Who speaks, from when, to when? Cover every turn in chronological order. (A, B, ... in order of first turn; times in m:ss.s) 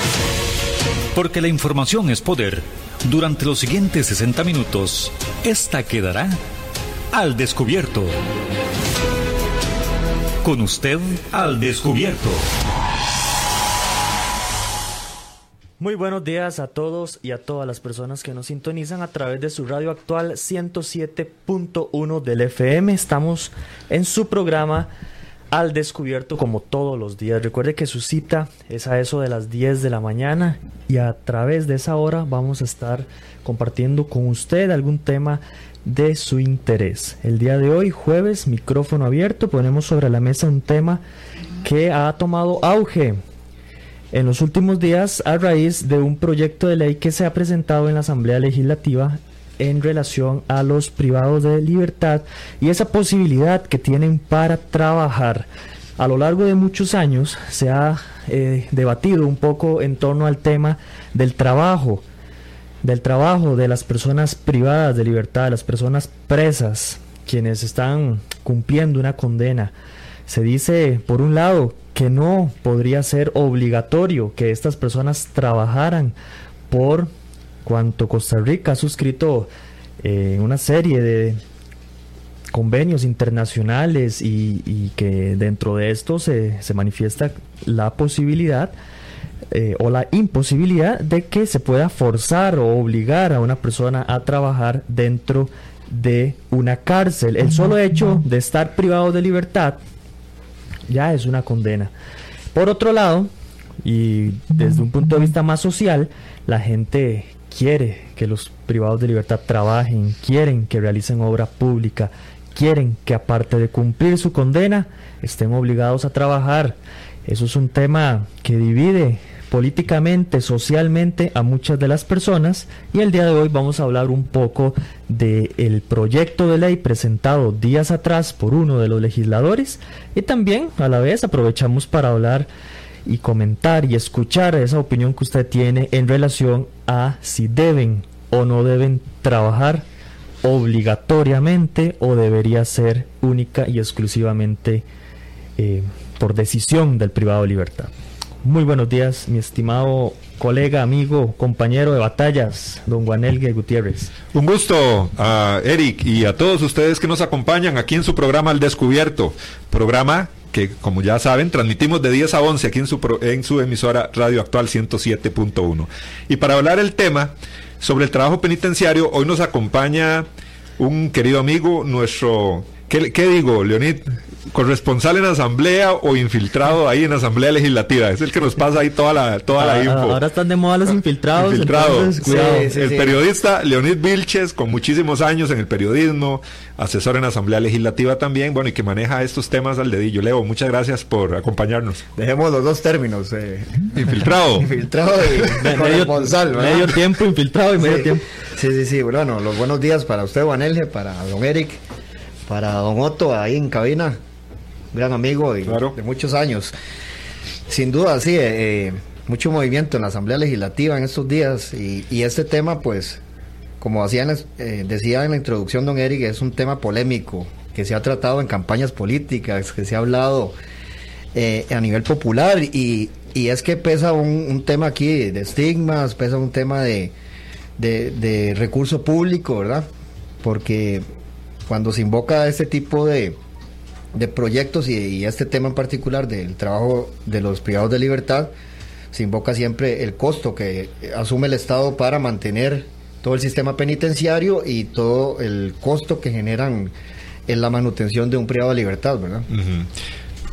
0:01.1-0:06.4 A
0:07.1-0:08.2 A
0:10.4-0:12.4 A
0:15.8-0:24.9 B
0:25.5-0:41.0 B
0:41.6-0:43.2 B
0:44.1-1:02.0 B
1:02.8-1:09.7 B
1:10.3-1:16.2 B
1:16.7-1:17.1 B
1:17.6-1:19.5 B
1:20.0-1:21.4 B
1:22.5-1:28.7 B
1:29.5-1:39.8 B
1:40.9-1:41.9 B
1:42.5-1:43.3 B
1:43.8-2:12.5 B
2:13.0-2:19.8 B
2:20.4-2:24.8 B
2:25.6-2:27.9 B
2:28.4-2:34.1 B
2:34.3-2:50.3 C
2:50.8-3:00.2 C
2:59.5-3:02.7 B
3:01.4-3:12.0 C
3:02.2-3:03.2 D
3:12.2-3:17.0 D
3:13.9-3:14.7 C
3:15.6-3:18.2 B
3:17.8-3:21.8 D
3:22.5-3:24.2 D
3:24.9-3:26.7 D
3:25.6-3:25.9 C
3:27.7-3:33.2 D
3:33.8-3:40.6 D
3:41.3-3:47.1 D
3:47.8-3:49.9 D
3:50.4-3:51.0 D
3:51.7-3:53.4 D
3:54.1-3:58.5 D
3:59.1-4:06.9 D
4:07.5-4:09.5 D
4:09.5-4:09.9 C